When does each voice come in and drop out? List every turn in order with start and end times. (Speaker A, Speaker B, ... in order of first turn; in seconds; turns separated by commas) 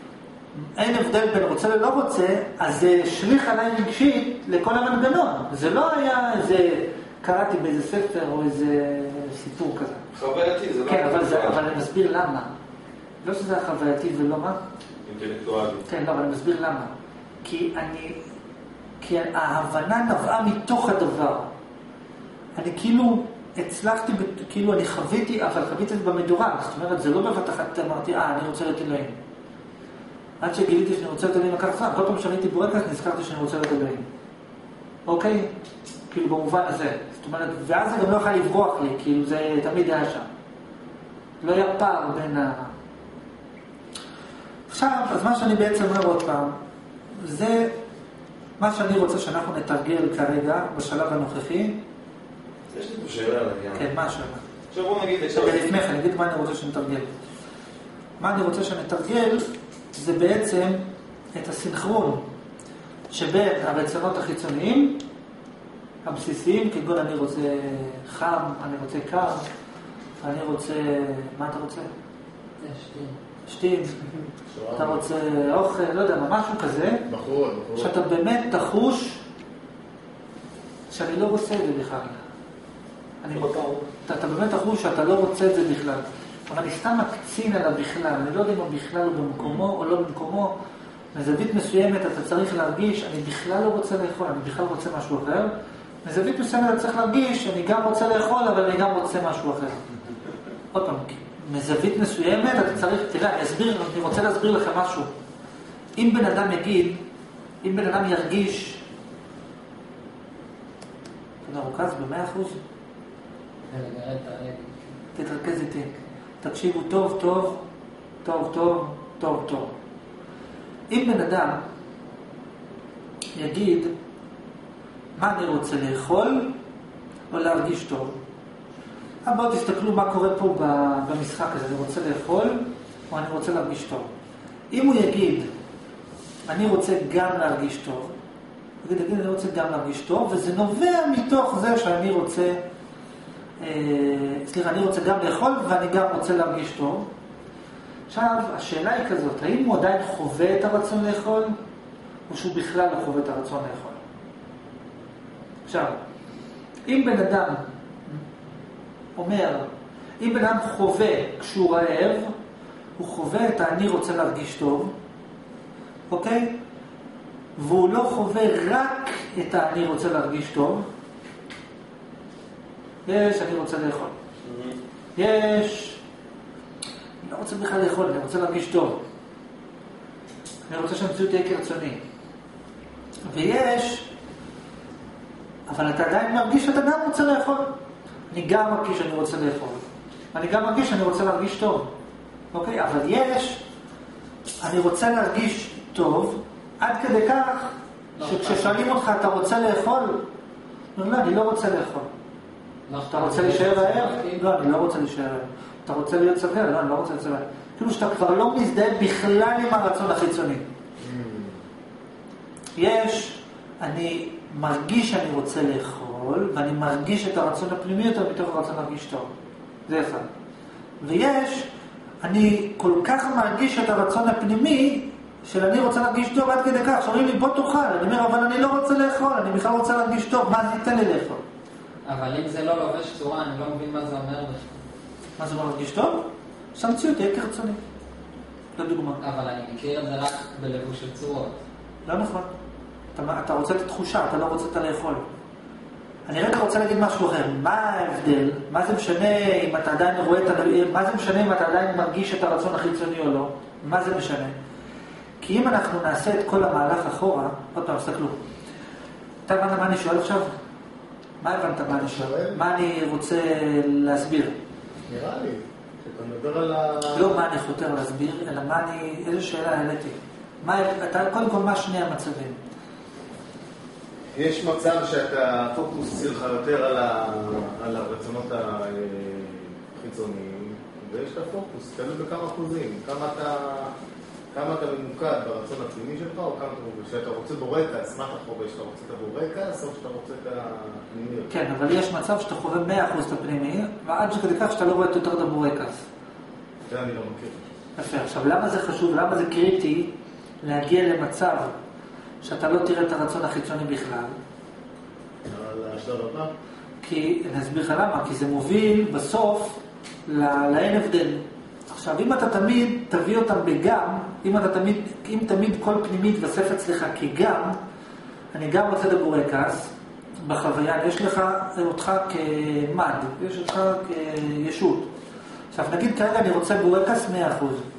Speaker A: 0.5-10.0, Speaker B: 10.1-11.6, Speaker A: 10.9-12.5, Speaker A: 13.2-14.6, Speaker B: 15.0-15.9, Speaker A: 15.9-16.9, Speaker A: 17.4-18.2, Speaker A: 19.0-21.5, Speaker A: 22.6-29.2, Speaker A: 30.4-34.1, Speaker A: 35.0-35.5, Speaker A: 36.1-40.3, Speaker A: 41.4-42.7, Speaker A: 44.7-46.6, Speaker A: 47.1-47.7, Speaker A: 48.6-51.8, Speaker B: 52.7-53.9, Speaker A: 53.8-54.4, Speaker B: 54.7-55.8, Speaker A: 55.3-57.1, Speaker A: 58.2-62.2, Speaker A: 63.1-65.0, Speaker A: 66.0-69.4, Speaker A: 70.2-71.9, Speaker C: 72.6-73.2, Speaker A: 73.5-74.0, Speaker D: 74.5-75.0, Speaker A: 74.8-77.0, Speaker D: 77.1-77.9, Speaker A: 77.8-79.2, Speaker A: 80.9-82.2, Speaker A: 83.2-83.5, Speaker B: 83.3-83.9, Speaker A: 84.0-90.5, Speaker A: 91.1-95.5, Speaker A: 96.0-99.8, Speaker A: 100.7-105.1, Speaker A: 106.0-107.0, Speaker A: 107.6-108.8, Speaker A: 111.4-112.6, Speaker C: 113.7-115.0, Speaker A: 115.1-117.6, Speaker A: 118.2-119.7, Speaker A: 120.9-121.6, Speaker A: 123.3-123.9, Speaker A: 125.2-126.5, Speaker A: 127.3-128.2, Speaker A: 129.2-134.1, Speaker A: 134.7-135.5, Speaker A: 136.4-138.1, Speaker A: 138.8-142.6, Speaker A: 143.6-147.1, Speaker A: 148.1-151.6, Speaker A: 152.3-154.0, Speaker A: 155.7-156.0, Speaker A: 156.9-158.2, Speaker A: 159.2-159.7, Speaker A: 160.2-162.3, Speaker A: 163.0-164.9, Speaker A: 166.1-166.6, Speaker A: 167.6-170.9, Speaker A: 173.0-174.1, Speaker B: 174.4-174.8, Speaker A: 175.2-176.0, Speaker A: 177.2-179.0, Speaker A: 180.7-182.0, Speaker A: 183.3-184.1, Speaker A: 185.7-187.7, Speaker A: 188.3-191.9, Speaker A: 192.5-193.6, Speaker A: 194.6-200.2, Speaker C: 198.2-198.8, Speaker A: 200.9-202.1, Speaker C: 202.9-204.4, Speaker A: 203.1-210.7, Speaker D: 211.0-211.6, Speaker A: 212.8-219.3, Speaker A: 219.9-220.3, Speaker A: 221.0-221.7, Speaker A: 222.2-231.4, Speaker C: 232.1-234.7, Speaker A: 235.4-237.8, Speaker A: 238.8-239.2, Speaker C: 239.2-241.6, Speaker A: 242.0-242.5, Speaker A: 243.1-245.2, Speaker A: 246.3-254.5, Speaker A: 255.4-258.4, Speaker A: 259.4-260.5, Speaker A: 261.4-264.5, Speaker D: 261.9-262.6, Speaker D: 265.1-267.3, Speaker A: 267.1-272.6, Speaker D: 274.3-283.9, Speaker D: 284.5-291.5, Speaker A: 291.5-296.0, Speaker D: 296.9-297.7, Speaker A: 297.9-301.7, Speaker A: 302.4-304.3, Speaker D: 305.4-306.5, Speaker A: 307.0-317.8, Speaker A: 318.5-325.1, Speaker A: 325.7-327.8